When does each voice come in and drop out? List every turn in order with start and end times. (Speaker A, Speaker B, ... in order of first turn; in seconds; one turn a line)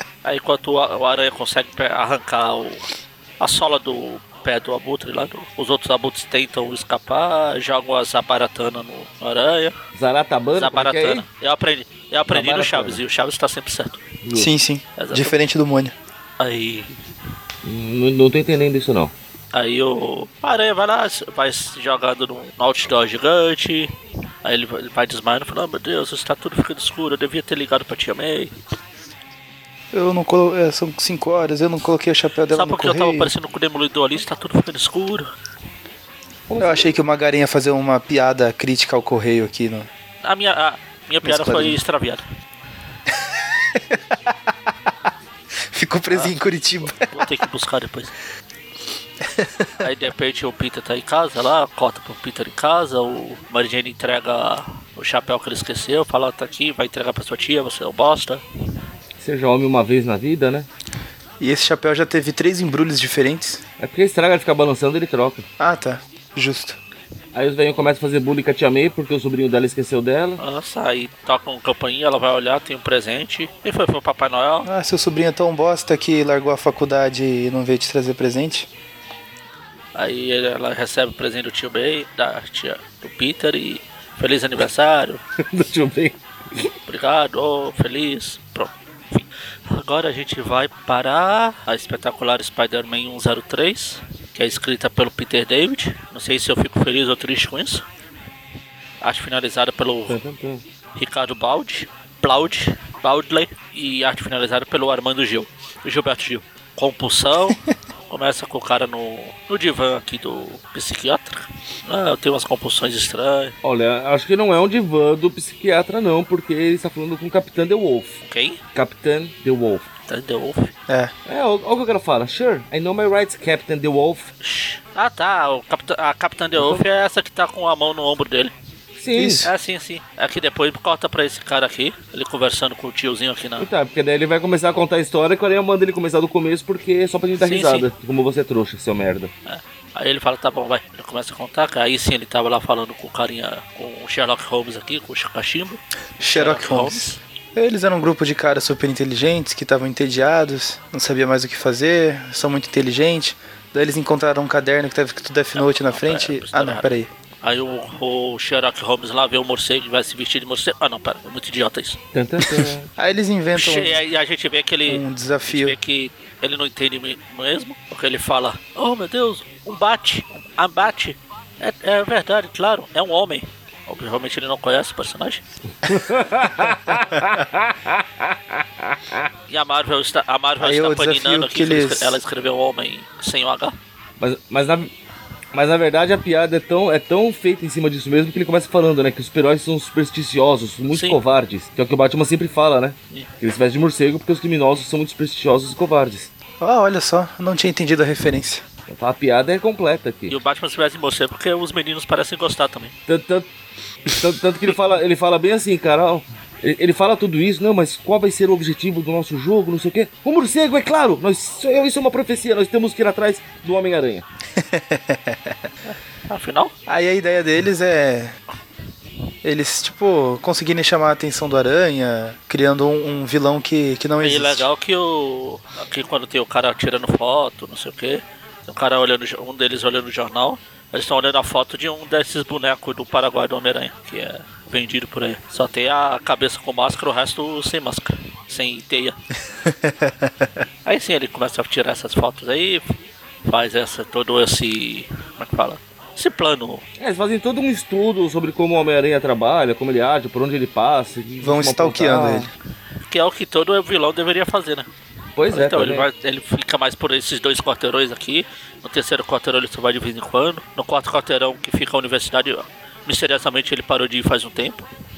Speaker A: 0.2-2.9
Speaker A: 3.4-9.8
Speaker B: 9.9-11.2
Speaker A: 10.6-14.0
Speaker B: 12.3-13.0
Speaker B: 14.2-14.5
Speaker C: 14.3-15.9
Speaker A: 15.0-15.4
Speaker A: 16.4-17.0
Speaker B: 17.6-19.1
Speaker A: 19.5-23.9
Speaker A: 24.4-28.5
Speaker C: 29.9-33.3
Speaker A: 32.5-35.3
Speaker B: 36.5-36.9
Speaker C: 36.6-39.9
Speaker A: 40.2-42.2
Speaker C: 41.2-41.8
Speaker C: 43.1-44.4
Speaker C: 45.7-47.1
Speaker A: 47.0-48.1
Speaker C: 49.2-49.7
Speaker A: 49.8-58.4
Speaker B: 59.2-60.7
Speaker C: 61.4-63.6
Speaker B: 63.8-65.5
Speaker C: 65.6-66.8
Speaker B: 67.3-70.4
Speaker A: 70.4-74.7
Speaker C: 74.6-78.7
Speaker A: 80.0-85.2
Speaker B: 85.4-86.7
Speaker A: 86.9-97.8
Speaker A: 99.0-100.2
Speaker B: 100.1-100.6
Speaker A: 101.0-113.5
Speaker B: 113.6-118.2
Speaker A: 118.2-118.6
Speaker B: 118.8-119.9
Speaker A: 120.1-120.7
Speaker B: 121.3-124.3
Speaker A: 124.4-128.5
Speaker B: 126.6-126.8
Speaker B: 129.0-129.5
Speaker C: 129.2-129.5
Speaker A: 129.4-133.7
Speaker B: 133.6-139.3
Speaker A: 137.4-137.9
Speaker A: 139.5-145.8
Speaker C: 146.2-157.1
Speaker A: 146.3-147.2
Speaker A: 155.6-162.0
Speaker B: 162.1-162.9
Speaker C: 163.0-164.0
Speaker A: 163.6-175.4
Speaker C: 164.9-165.8
Speaker B: 175.8-178.2
Speaker A: 179.5-183.8
Speaker C: 180.6-182.2
Speaker B: 184.2-184.9
Speaker B: 185.5-196.3
Speaker A: 190.9-191.2
Speaker C: 196.6-198.7
Speaker B: 198.9-200.3
Speaker A: 200.3-202.9
Speaker B: 203.1-203.5
Speaker B: 204.1-214.2
Speaker C: 214.6-215.6
Speaker A: 215.9-216.7
Speaker C: 216.9-218.4
Speaker C: 219.4-224.7
Speaker A: 224.2-239.2
Speaker C: 239.7-240.5
Speaker A: 240.9-242.9
Speaker A: 243.4-246.8
Speaker B: 247.0-252.5
Speaker C: 251.4-252.5
Speaker A: 253.1-254.9
Speaker B: 255.4-256.1
Speaker A: 255.5-264.9